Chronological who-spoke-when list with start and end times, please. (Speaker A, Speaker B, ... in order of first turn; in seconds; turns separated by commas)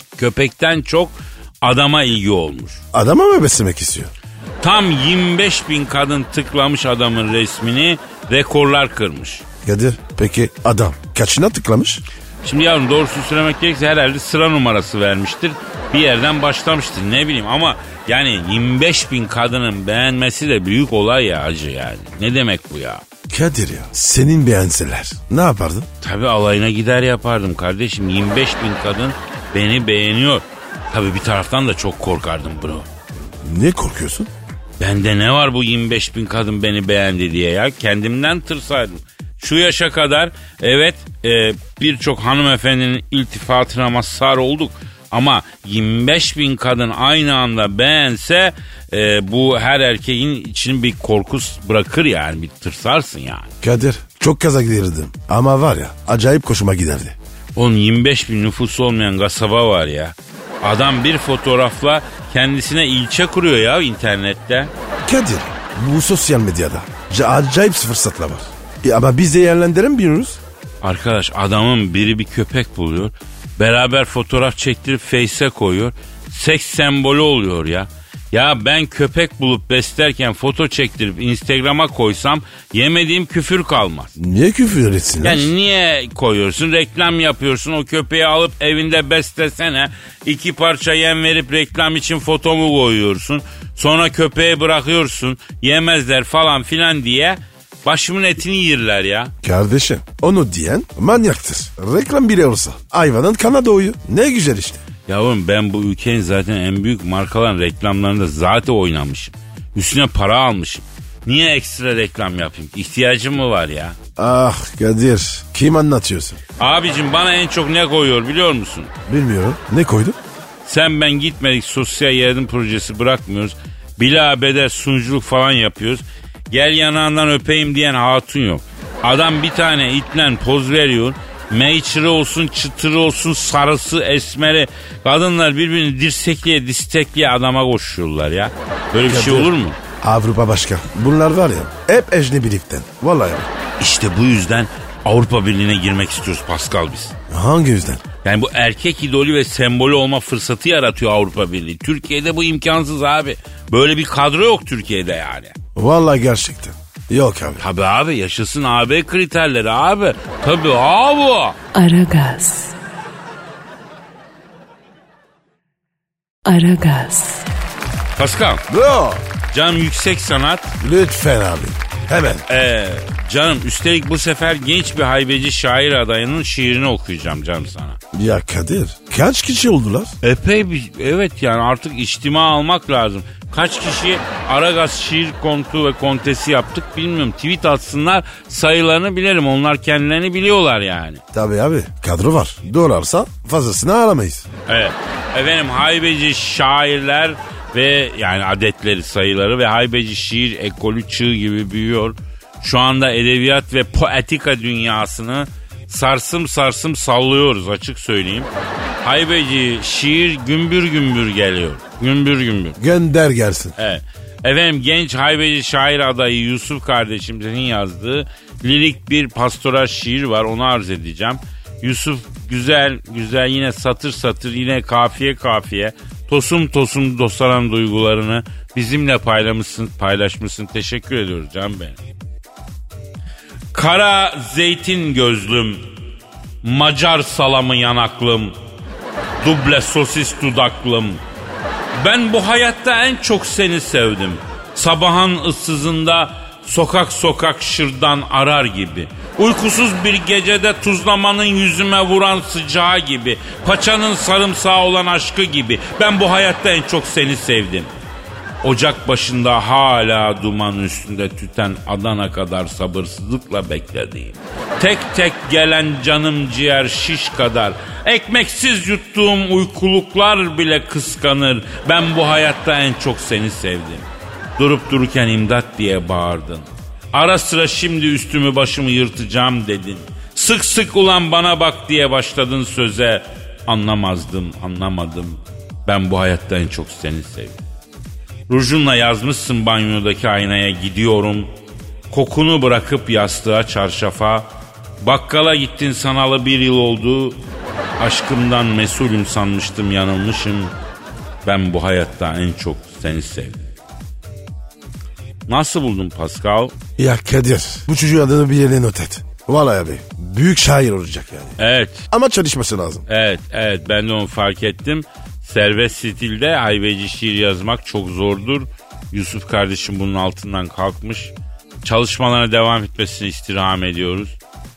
Speaker A: 0.2-2.8, Speaker B: 2.9-4.1, Speaker A: 4.6-9.4, Speaker B: 9.6-12.0, Speaker A: 12.4-23.0, Speaker B: 23.3-25.9, Speaker A: 26.0-32.9, Speaker B: 33.4-34.3, Speaker A: 34.8-53.5, Speaker B: 53.6-57.1, Speaker A: 57.5-64.7, Speaker B: 65.0-70.4, Speaker A: 70.8-84.2, Speaker B: 84.2-85.5, Speaker A: 85.2-99.3, Speaker B: 99.4-104.8, Speaker A: 105.1-114.0, Speaker B: 114.2-116.4, Speaker A: 116.6-118.9, Speaker B: 119.1-120.2, Speaker A: 120.7-139.8, Speaker B: 139.1-143.5, Speaker A: 143.8-147.2, Speaker B: 147.3-148.0, Speaker A: 148.2-155.6, Speaker B: 155.8-157.6, Speaker A: 157.6-161.6, Speaker C: 161.7-162.8, Speaker C: 166.4-167.5, Speaker A: 168.2-168.6, Speaker B: 168.7-169.2, Speaker A: 169.5-170.7, Speaker B: 170.8-172.4, Speaker A: 172.5-178.0, Speaker B: 178.1-180.2, Speaker A: 180.2-191.2, Speaker B: 191.3-194.5, Speaker A: 194.7-208.5, Speaker A: 209.0-212.8, Speaker B: 212.8-213.7, Speaker A: 213.8-232.0, Speaker A: 233.7-235.8, Speaker A: 236.6-238.5, Speaker A: 239.4-241.2, Speaker A: 241.9-257.9, Speaker A: 258.6-274.1, Speaker A: 274.6-287.6, Speaker A: 288.5-291.5, Speaker A: 292.1-294.5, Speaker A: 295.0-297.4, Speaker A: 298.0-300.7, Speaker A: 301.4-303.7, Speaker A: 305.5-306.8, Speaker B: 307.0-311.6, Speaker A: 311.6-312.1, Speaker B: 312.1-313.1, Speaker A: 313.1-321.3, Speaker A: 321.8-324.4